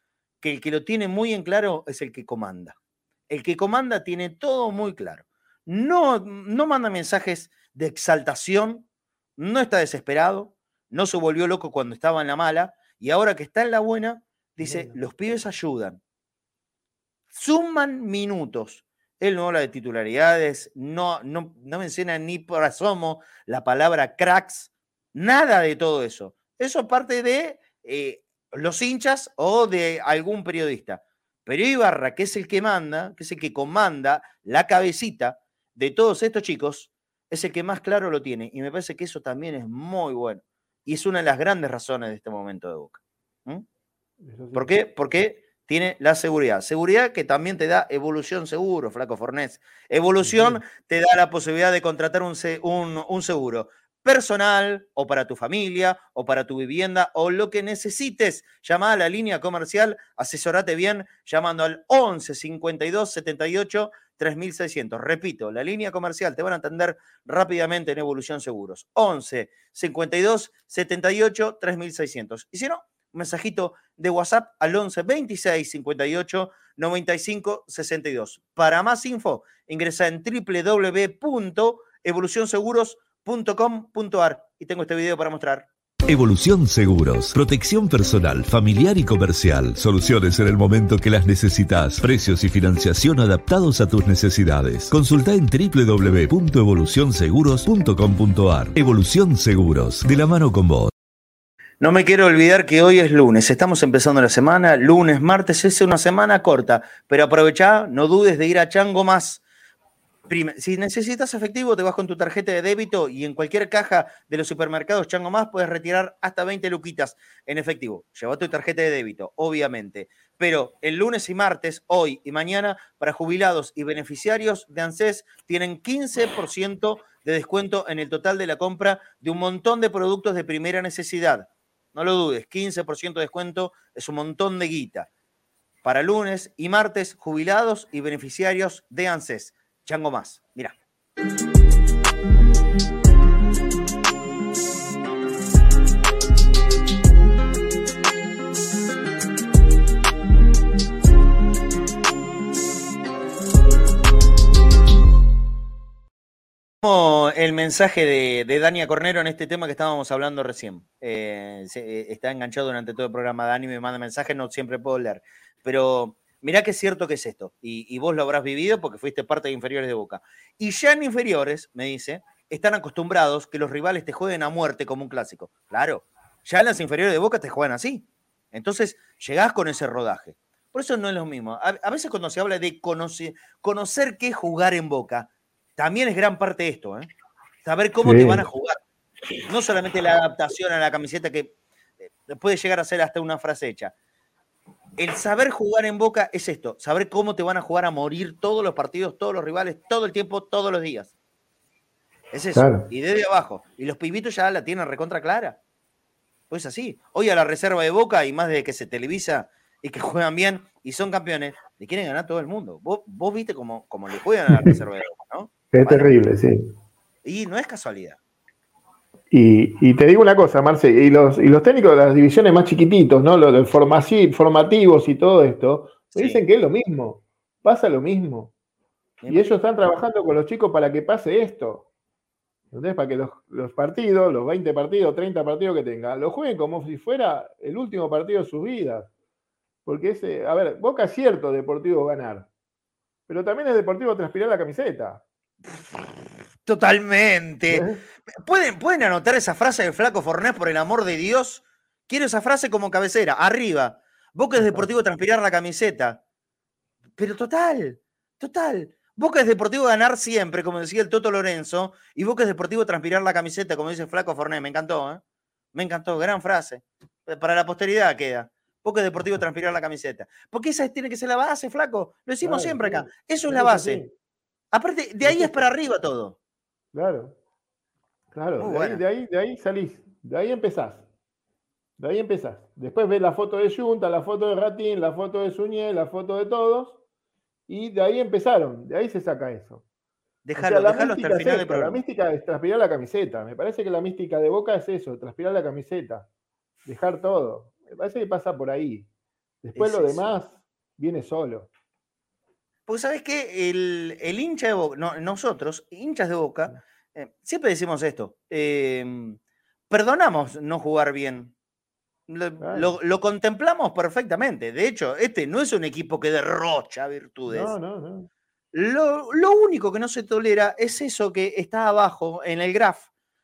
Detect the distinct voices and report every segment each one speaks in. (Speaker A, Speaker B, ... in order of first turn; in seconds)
Speaker A: 0.4-2.8, 3.3-8.9, 9.4-16.0, 17.3-43.6, 44.5-85.7, 101.8-109.4, 110.3-135.1, 135.8-140.8, 156.8-187.1, 187.6-188.8, 189.5-191.5, 192.0-193.9, 195.0-201.1, 202.3-205.6, 206.5-216.1, 217.2-218.2, 226.1-226.4, 229.2-229.6, 245.7-246.1, 246.6-256.2, 257.2-265.2, 265.7-274.0, 274.7-276.4, 278.6-279.0, 290.4-292.0, 299.8-300.3, 302.9-309.4, 309.9-311.5, 312.3-317.8, 318.7-323.1
Speaker B: 14.6-15.0, 44.2-44.7, 50.2-50.6, 188.0-188.4, 202.6-202.8, 215.7-216.7, 219.3-228.5, 229.3-231.9, 232.7-239.1, 239.9-242.5, 243.3-245.2, 247.7-248.0, 254.6-254.9, 272.4-274.1, 275.2-275.7, 276.9-277.4, 278.3-281.1, 282.0-287.0, 287.7-289.8, 290.6-296.3, 296.9-299.1, 299.6-301.7, 312.6-312.9, 317.5-318.3
Speaker C: 86.1-100.9